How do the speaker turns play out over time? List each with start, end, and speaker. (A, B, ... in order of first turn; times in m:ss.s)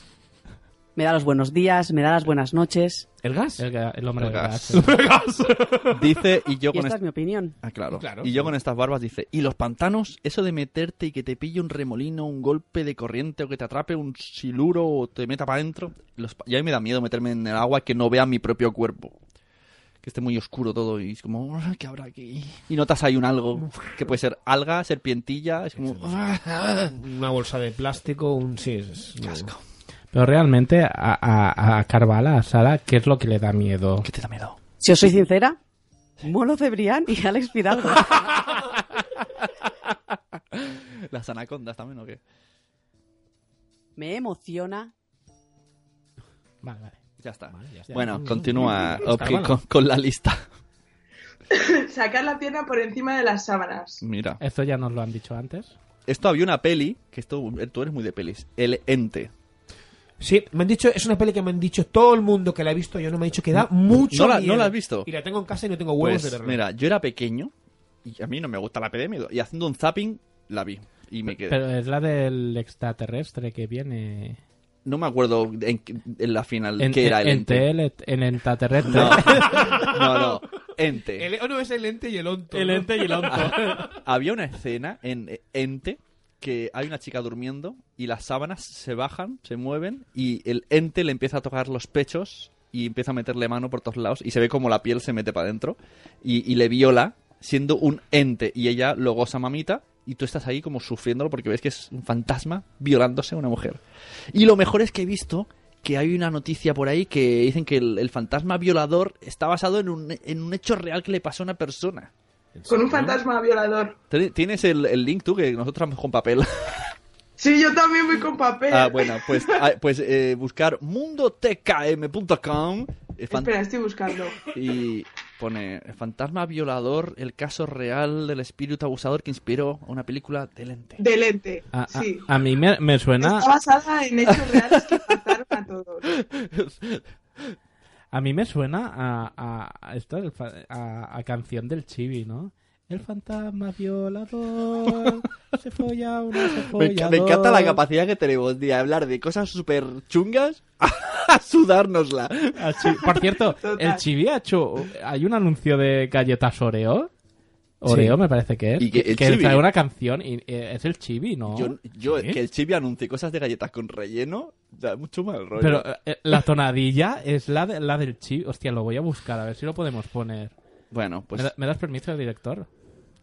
0:01.0-0:03.1 A
0:03.2-0:03.6 B
0:03.6-0:05.0 C
0:04.2-0:04.8 D
0:04.7-0:06.1 B
0:05.9-0:07.0 D
0:06.7-0:07.6 A
0:07.6-0:19.2 D
0:07.9-0:08.5 B
0:20.0-0:26.9 D
0:23.6-0:24.2 B
0:25.8-0:26.2 B
0:26.9-0:29.5 B
0:29.2-0:29.6 D
0:30.1-0:34.1 C
0:34.0-0:35.2 D
0:34.8-0:35.6 A
0:36.2-0:38.3 A
0:40.6-0:42.2 D
0:44.0-0:44.9 A
0:46.6-0:47.0 C
0:47.2-0:50.4 D
0:47.5-0:49.0 B
0:47.9-0:49.6 C
0:51.5-0:54.0 E
0:54.0-0:54.4 D
0:54.4-0:55.8 C
0:56.1-0:59.3 D
1:00.2-1:06.6 B
1:03.9-1:05.1 D
1:06.0-1:07.5 D
1:08.0-1:11.6 D
1:11.5-1:14.4 C
1:14.8-1:17.7 D
1:16.8-1:19.8 C
1:18.8-1:21.3 D
1:18.9-1:20.4 B
1:21.2-1:23.7 B
1:22.5-1:23.9 C
1:23.4-1:52.1 D
1:52.6-1:53.2 B
1:52.7-1:54.0 E
1:54.1-1:56.9 D
1:57.4-1:59.5 E
1:58.7-2:03.5 D
2:03.3-2:04.4 E
2:04.4-2:11.0 D
2:11.0-2:12.2 E
2:11.7-2:13.5 C
2:13.2-2:16.1 E
2:14.3-2:15.0 D
2:16.2-2:17.5 D
2:18.1-2:27.8 C
2:26.4-2:33.0 D
2:32.6-2:37.1 C
2:33.6-2:34.0 E
2:37.8-2:41.8 C
2:37.9-2:38.1 D
2:38.8-2:39.6 D
2:41.5-2:45.9 D
2:45.6-2:50.6 C
2:50.9-2:51.5 D
2:51.4-2:52.7 C